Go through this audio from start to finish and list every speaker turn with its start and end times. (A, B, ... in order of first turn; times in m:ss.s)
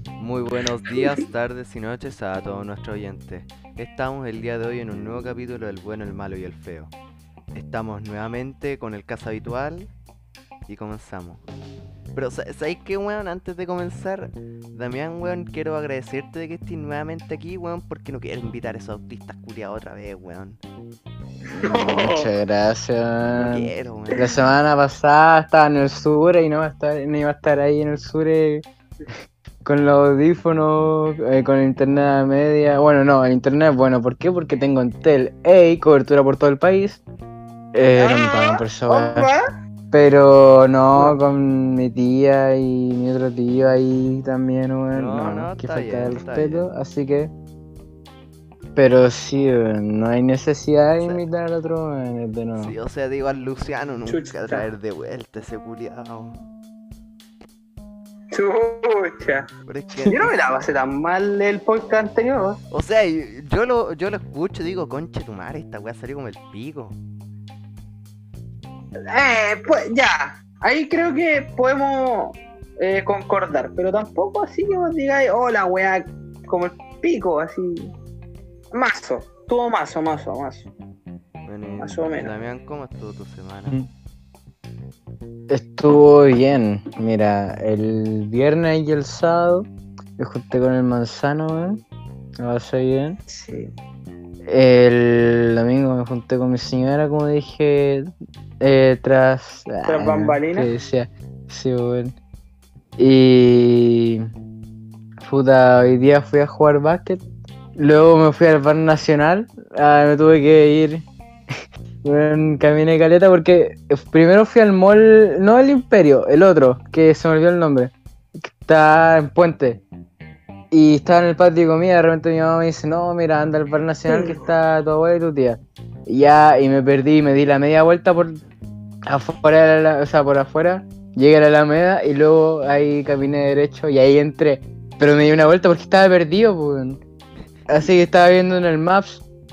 0:00.2-0:06.9 A
0:00.9-0:01.2 B
0:07.5-0:09.9 A
0:10.7-0:11.4 A
0:12.1-0:20.6 A
0:21.5-0:28.7 C
0:21.6-0:22.3 B
0:23.4-0:24.4 A
0:29.6-0:37.0 C
0:37.7-0:39.3 C
0:38.0-0:39.5 B
0:39.9-0:47.3 C
0:44.9-0:46.7 A
0:48.8-0:52.7 C
0:51.0-0:51.2 A
0:52.6-0:56.4 A
0:54.1-0:54.7 B
0:58.3-0:59.5 B
0:59.7-1:00.4 A
1:00.1-1:02.6 B
1:02.7-1:07.0 A
1:09.1-1:17.9 B
1:18.7-1:20.7 B
1:21.5-1:23.8 A
1:21.8-1:22.4 B
1:25.5-1:31.8 C
1:32.4-1:33.2 C
1:33.3-1:33.7 B
1:34.5-1:42.2 C
1:39.9-1:40.7 B
1:43.0-1:44.3 C
1:45.2-1:47.2 C
1:47.8-1:51.1 C
1:52.0-1:59.8 C
2:00.7-2:08.4 C
2:04.1-2:04.5 B
2:09.0-2:17.0 C
2:17.7-2:19.2 C